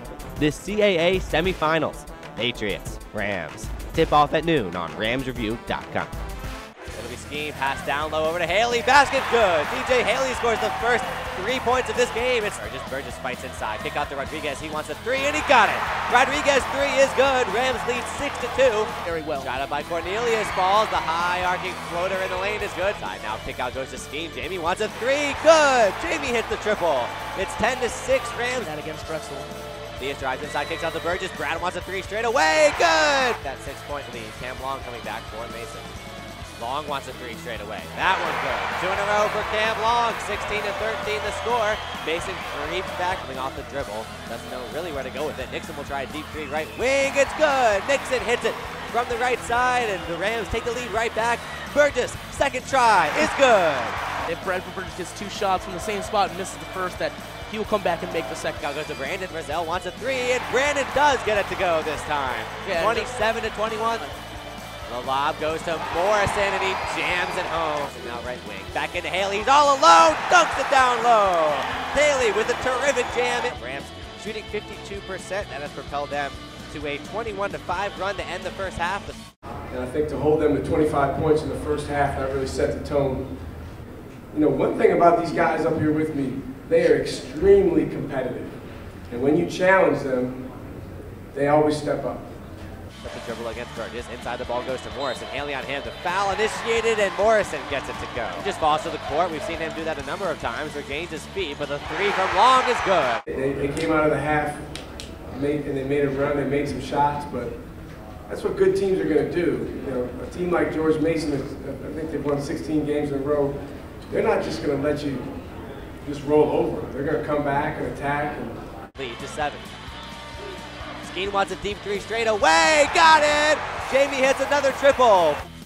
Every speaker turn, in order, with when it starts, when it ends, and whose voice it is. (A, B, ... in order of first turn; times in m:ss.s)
0:00.4-0:06.1 A
0:06.9-0:28.7 A
0:19.0-0:19.5 B
0:28.6-0:29.5 B
0:30.0-0:35.9 A
0:36.6-0:54.0 A
0:54.3-0:58.6 B
0:58.6-1:04.1 A
1:02.6-1:03.1 B
1:04.9-1:19.2 A
1:19.7-1:23.3 C
1:24.3-1:28.6 C
1:29.1-1:30.5 C
1:31.3-1:32.3 C
1:33.0-1:43.2 A
1:43.3-1:44.6 C
1:45.3-1:47.6 C
1:48.3-1:53.6 C
1:54.1-1:55.3 C
1:56.0-1:58.6 C
1:59.0-1:59.7 A
2:01.0-2:05.4 A